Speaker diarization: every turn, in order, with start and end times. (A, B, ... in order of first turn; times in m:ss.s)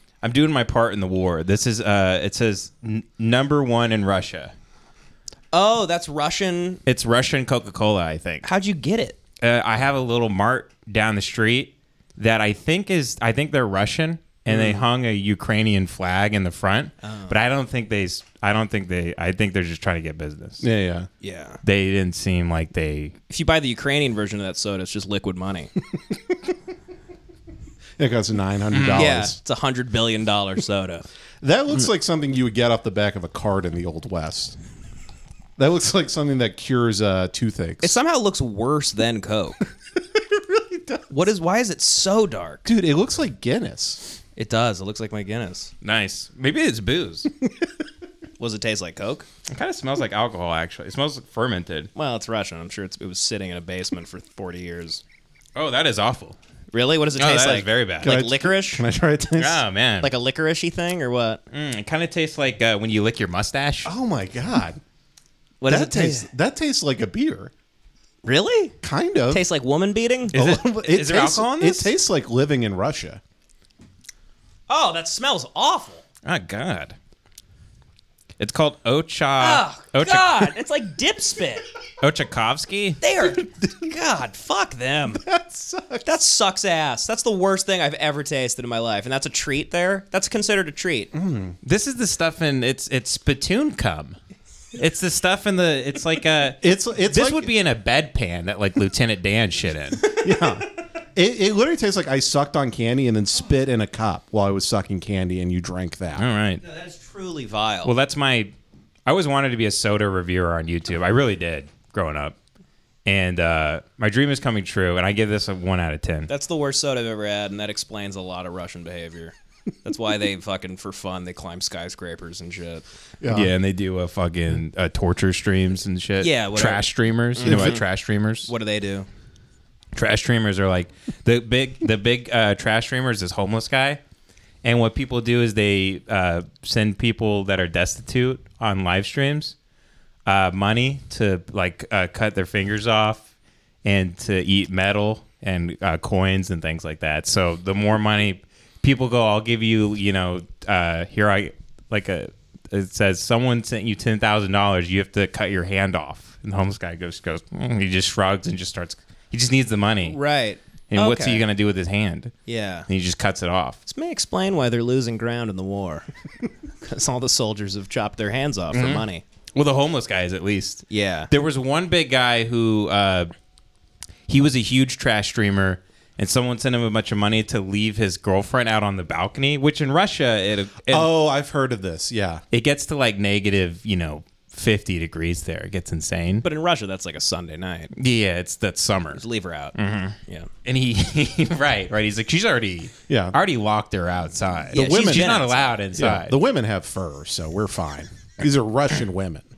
0:00.2-0:04.5 A
0:05.5-0:06.8 B
0:06.9-0:08.5 A
0:08.4-0:09.2 B
0:09.4-0:20.7 A
0:14.5-0:14.8 C
0:17.0-0:17.4 B
0:20.6-0:21.1 C
0:21.2-0:21.6 B
0:21.6-0:23.2 A
0:23.3-0:25.7 B
0:28.0-0:29.4 C
0:28.7-0:29.1 A
0:29.0-0:31.0 B
0:31.4-0:34.6 C
0:35.6-0:38.0 C
0:37.8-0:39.6 B
0:40.6-0:41.0 C
0:41.1-0:42.7 B
0:42.7-0:44.2 C
0:44.4-0:45.7 B
0:45.8-0:47.3 A
0:48.4-0:49.3 B
0:49.5-0:51.9 A
0:52.0-0:55.0 B
0:55.6-0:56.4 A
0:56.7-0:58.8 B
0:57.2-0:58.2 A
0:58.0-0:59.6 C
0:59.4-1:00.1 A
1:00.0-1:01.4 B
1:01.5-1:03.9 A
1:03.8-1:04.8 C
1:05.6-1:06.3 B
1:05.7-1:07.5 C
1:08.2-1:08.8 B
1:08.8-1:09.4 C
1:09.3-1:10.4 B
1:10.3-1:11.9 A
1:10.3-1:13.2 C
1:14.7-1:16.0 B
1:16.2-1:17.0 A
1:18.4-1:20.5 A
1:19.4-1:21.6 B
1:22.0-1:23.0 A
1:23.0-1:25.2 B
1:25.2-1:26.1 C
1:26.0-1:31.1 B
1:31.1-1:31.6 C
1:31.6-1:34.2 A
1:34.8-1:40.1 A
1:36.6-1:37.5 C
1:40.1-1:46.3 C
1:46.2-1:46.6 A
1:46.6-1:47.9 B
1:47.8-1:48.5 A
1:49.1-1:52.4 A
1:53.0-1:56.3 A
1:56.3-2:02.8 B
2:03.2-2:03.5 C
2:03.3-2:08.5 A
2:06.2-2:07.8 B
2:07.4-2:07.8 C
2:08.4-2:09.1 B
2:10.0-2:14.0 A
2:14.6-2:19.6 A
2:20.3-2:23.3 A
2:23.8-2:40.2 A
2:40.0-2:41.4 B
2:40.9-2:42.4 A
2:42.5-2:42.9 B
2:42.9-2:43.8 A
2:43.9-2:46.1 B
2:46.8-2:49.2 B
2:48.7-2:53.3 A
2:50.9-2:51.3 B
2:54.3-3:01.1 A
3:00.9-3:02.4 C
3:02.5-3:06.5 A
3:06.4-3:07.9 B
3:07.9-3:09.2 A
3:09.2-3:09.8 B
3:09.8-3:16.4 A
3:13.1-3:13.4 C
3:14.7-3:15.7 B
3:14.7-3:19.5 C